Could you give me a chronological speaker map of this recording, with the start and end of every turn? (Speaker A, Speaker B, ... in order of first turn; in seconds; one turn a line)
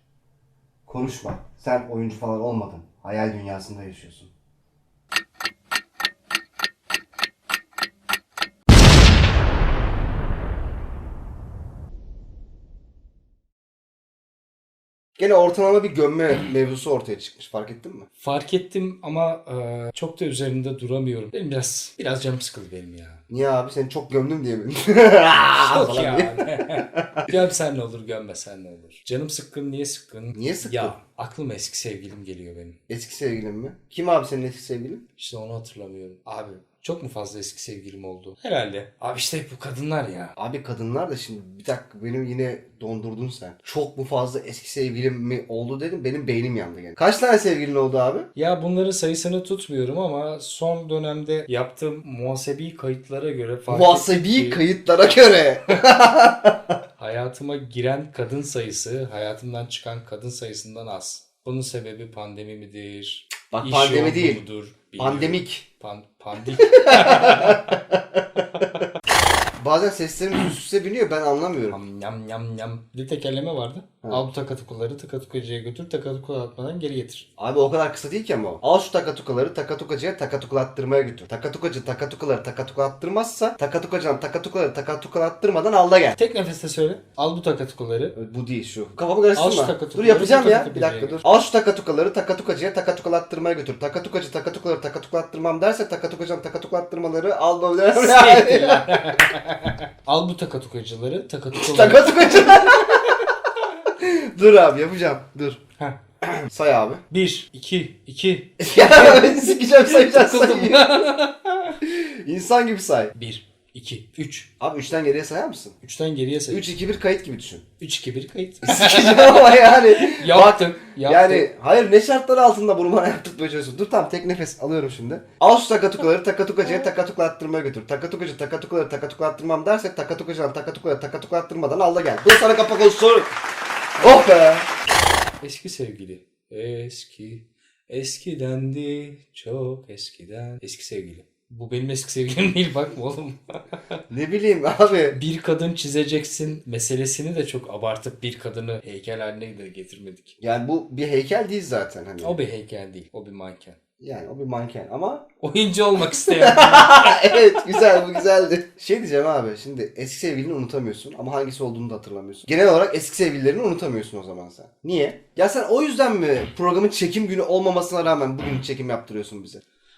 Speaker A: 0.9-4.3
Speaker A: 15.2-18.1
Speaker B: 18.2-23.2
Speaker A: 23.3-27.3
Speaker B: 25.5-32.8
Speaker A: 30.3-30.9
Speaker A: 32.9-35.0
Speaker B: 35.2-40.3
Speaker A: 40.4-48.3
Speaker B: 48.3-54.6
Speaker A: 53.7-56.7
Speaker B: 57.0-67.8
Speaker A: 63.5-64.4
Speaker A: 65.0-65.6
Speaker A: 66.6-68.8
Speaker A: 69.6-71.8
Speaker B: 71.7-77.3
Speaker A: 77.4-86.2
Speaker B: 86.1-88.2
Speaker A: 88.1-99.3
Speaker B: 89.3-91.2
Speaker B: 97.9-103.2
Speaker A: 101.5-103.2
Speaker A: 103.9-105.6
Speaker A: 106.2-107.0
Speaker B: 107.1-111.8
Speaker A: 108.6-110.9
Speaker A: 111.8-113.1
Speaker B: 113.1-114.5
Speaker A: 114.6-115.8
Speaker B: 115.8-116.7
Speaker A: 116.5-117.6
Speaker B: 117.8-121.5
Speaker A: 118.6-133.3
Speaker A: 134.0-134.7
Speaker B: 135.4-144.0
Speaker A: 144.1-145.2
Speaker B: 145.1-150.4
Speaker A: 150.4-152.4
Speaker B: 152.2-153.8
Speaker A: 154.0-155.2
Speaker B: 155.4-158.0
Speaker A: 156.0-169.6